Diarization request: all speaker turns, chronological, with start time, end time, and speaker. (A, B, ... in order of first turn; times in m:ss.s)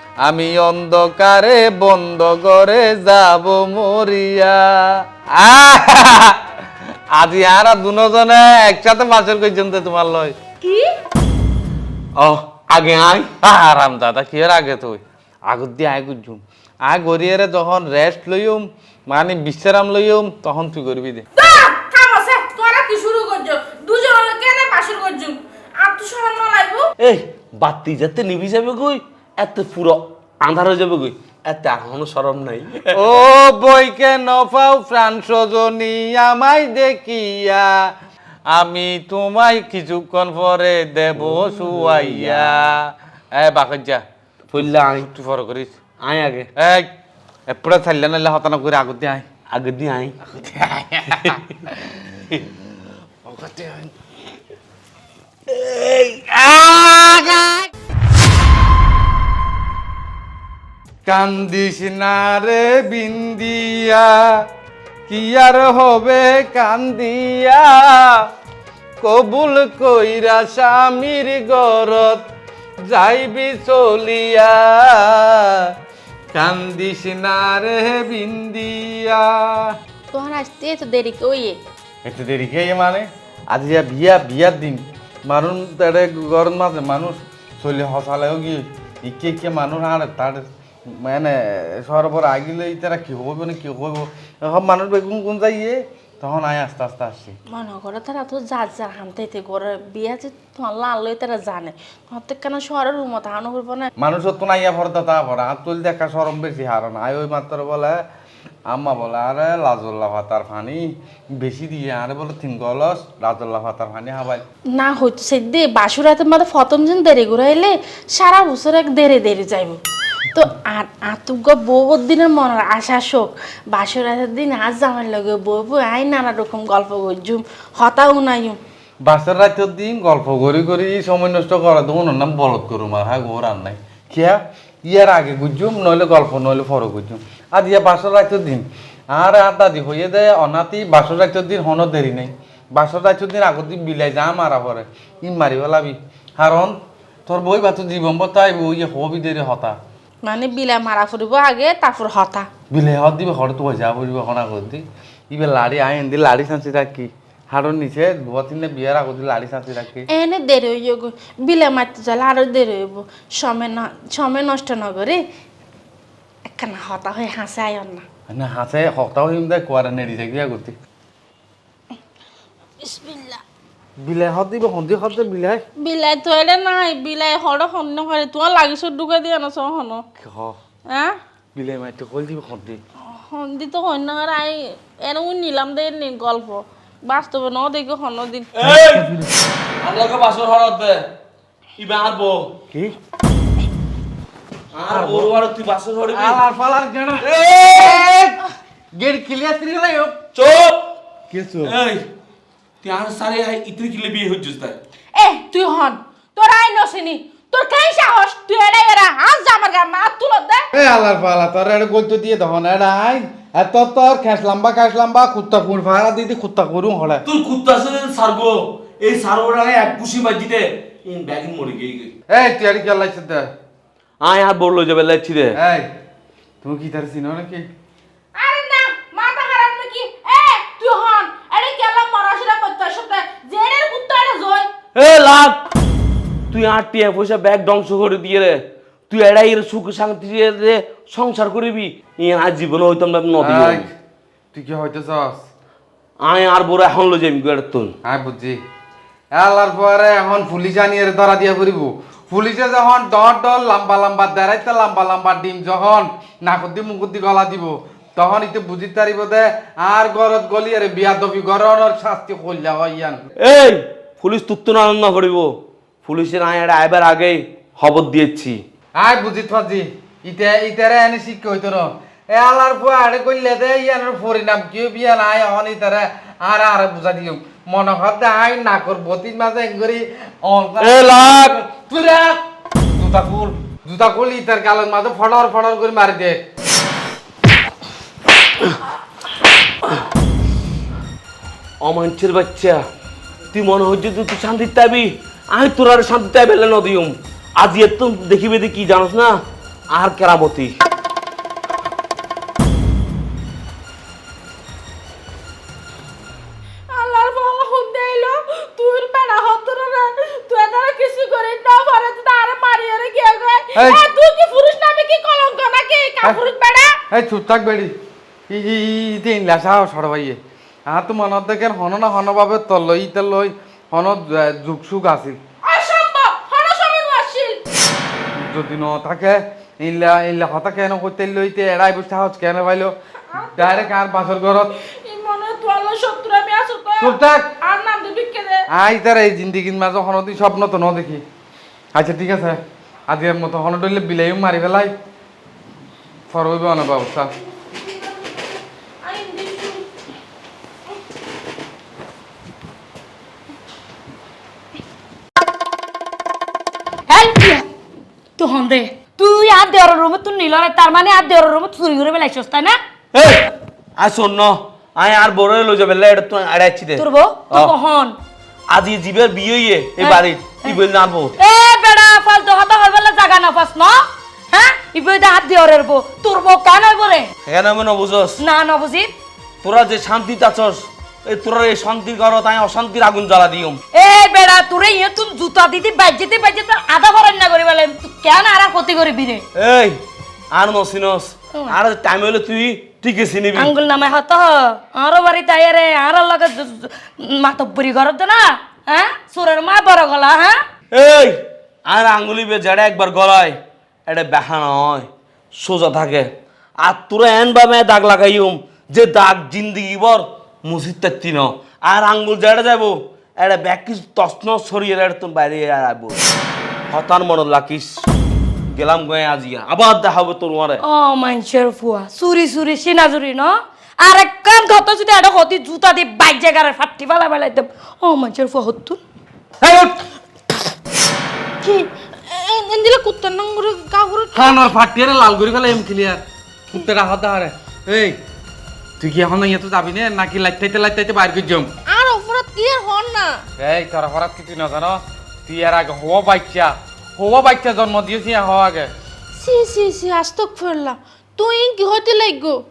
0:00.2-0:06.4 A
0:07.1-0:10.4 A
0:10.6-0:10.9 B
0:12.2-0:13.3 C
0:13.4-0:21.3 A
0:21.4-0:26.9 B
0:27.0-0:33.0 C
0:33.0-0:37.7 A
0:38.5-0:44.0 A
0:41.2-0:42.8 C
0:44.5-0:45.1 C
0:44.6-0:45.7 A
0:46.0-0:46.5 C
0:46.6-0:46.9 A
0:47.5-0:49.3 A
0:49.5-0:50.2 C
0:50.2-0:52.6 A
0:51.1-0:51.4 C
0:53.2-0:53.9 A
0:55.5-0:56.0 C
0:56.2-0:57.6 A
1:01.1-1:04.4 A
1:05.1-1:08.2 A
1:09.0-1:12.2 A
1:12.9-1:15.5 A
1:16.3-1:19.7 A
1:20.1-1:21.6 B
1:22.0-1:37.4 A
1:37.5-1:43.9 B
1:44.0-1:48.0 A
1:48.7-1:54.4 A
1:54.7-1:59.8 B
2:00.3-2:08.6 B
2:09.0-2:26.8 A
2:27.3-2:29.8 A
2:30.2-2:32.5 B
2:32.7-2:40.1 A
2:40.1-2:45.2 B
2:46.5-2:48.0 B
2:48.3-2:50.8 A
2:52.8-2:53.4 B
2:54.0-2:55.6 A
2:55.8-3:00.0 B
3:00.2-3:00.6 A
3:00.9-3:01.2 B
3:01.6-3:02.8 A
3:03.1-3:08.5 B
3:08.6-3:09.2 C
3:08.6-3:09.3 A
3:09.8-3:11.1 C
3:11.8-3:12.6 C
3:14.7-3:16.4 C
3:14.9-3:15.3 A
3:16.1-3:20.2 A
3:17.2-3:18.2 C
3:20.3-3:20.9 C
3:21.3-3:21.8 A
3:21.6-3:22.1 C
3:22.8-3:24.8 C
3:25.2-3:30.6 B
3:30.7-3:37.2 A
3:37.2-3:42.2 C
3:42.3-3:43.5 A
3:44.2-3:45.6 C
3:45.6-3:45.9 A
3:46.6-3:47.6 A
3:48.4-3:54.7 B
3:55.0-3:55.6 C
3:56.5-4:03.9 C
4:03.4-4:03.9 A
4:04.5-4:05.4 A
4:06.2-4:07.9 C
4:08.0-4:08.6 A
4:09.4-4:23.2 A
4:23.4-4:25.5 C
4:26.0-4:28.6 C
4:29.0-4:42.4 A
4:40.8-4:41.6 C
4:43.0-4:46.4 A
4:51.8-4:52.8 C
4:53.5-4:59.4 C
4:59.9-5:00.8 C
5:06.9-5:17.0 B
5:13.8-5:14.0 A
5:17.1-5:17.9 A
5:18.5-5:25.4 A
5:25.6-5:27.6 B
5:28.4-5:34.7 A
5:34.8-5:38.7 B
5:37.0-5:37.5 A
5:38.7-5:41.2 A
5:42.0-5:44.9 A
5:46.3-5:47.3 A
5:49.0-5:49.9 B
5:57.1-5:57.7 D
5:58.4-6:02.8 D
6:03.1-6:07.7 C
6:07.0-6:08.2 D
6:08.7-6:11.4 C
6:10.0-6:10.8 D
6:11.4-6:17.3 D
6:17.4-6:18.4 C
6:18.4-6:19.1 D
6:19.6-6:23.8 C
6:23.9-6:29.4 D
6:29.5-6:33.7 C
6:33.6-6:40.6 D
6:40.9-6:56.2 C
6:56.9-6:58.1 C
6:58.7-7:00.8 C
7:00.8-7:09.0 D
7:09.6-7:10.0 A
7:11.6-7:14.7 B
7:14.3-7:18.2 A
7:19.0-7:21.7 A
7:21.9-7:23.4 B
7:23.6-7:28.9 A
7:29.4-7:32.6 B